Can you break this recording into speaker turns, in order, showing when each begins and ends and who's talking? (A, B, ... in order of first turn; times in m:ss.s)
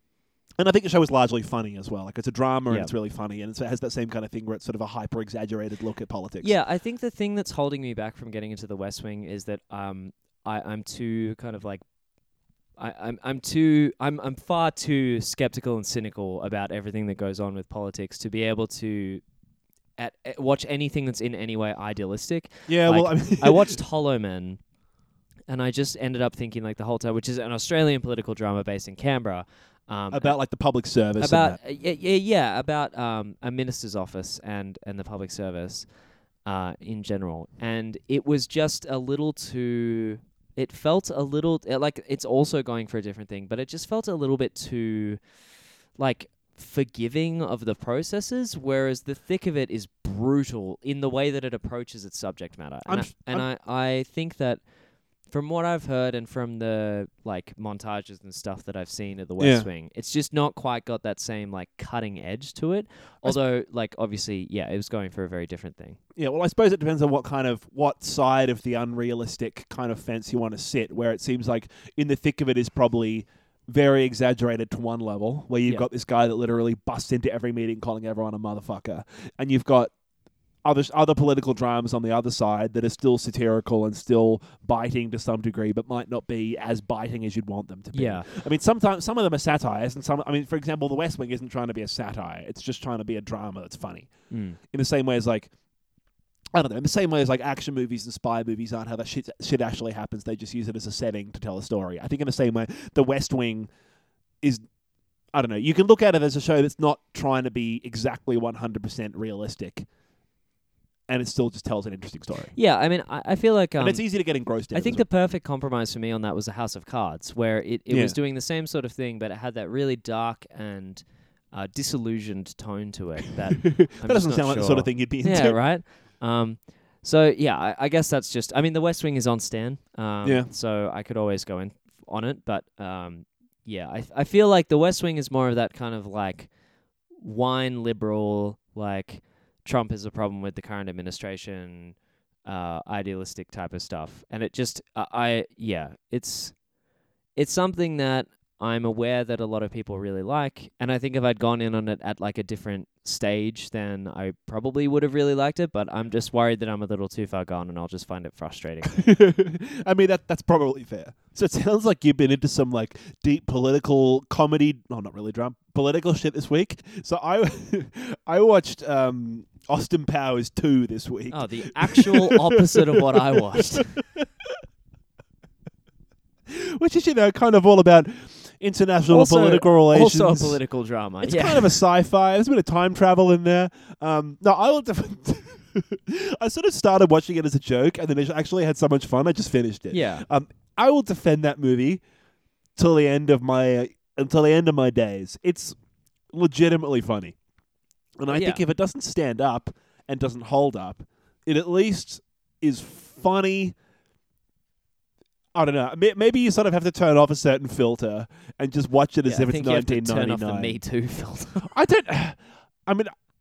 0:00.6-0:06.5 A
0:06.4-0:11.8 B
0:12.8-0:19.2 B
0:20.0-0:24.6 B
0:22.7-0:23.8 A
0:25.5-0:30.4 B
0:30.1-0:31.6 A
0:31.2-0:35.9 B
0:36.5-0:45.2 B
0:46.0-0:54.6 B
0:52.9-0:53.5 A
0:55.3-1:06.0 B
0:59.4-0:59.7 A
1:06.2-1:19.9 A
1:20.6-1:34.1 A
1:27.9-1:28.3 B
1:34.3-1:34.6 B
1:34.7-1:35.5 A
1:36.6-1:43.7 A
1:45.3-1:49.9 A
1:51.1-1:52.5 A
1:52.6-1:54.0 B
1:53.8-1:55.0 A
1:54.7-2:16.5 B
1:57.9-1:58.2 A
2:03.6-2:05.6 A
2:17.2-2:26.6 B
2:27.4-2:39.0 B
2:38.9-2:54.6 A
2:51.3-2:53.9 B
2:56.5-3:00.6 A
2:59.1-3:01.8 B
3:01.2-3:12.0 A
3:09.9-3:10.3 B
3:12.8-3:15.8 A
3:16.3-3:17.4 A
3:18.2-3:23.8 A
3:18.3-3:18.6 B
3:25.6-3:30.8 A
3:29.2-3:31.7 B
3:31.7-3:33.1 A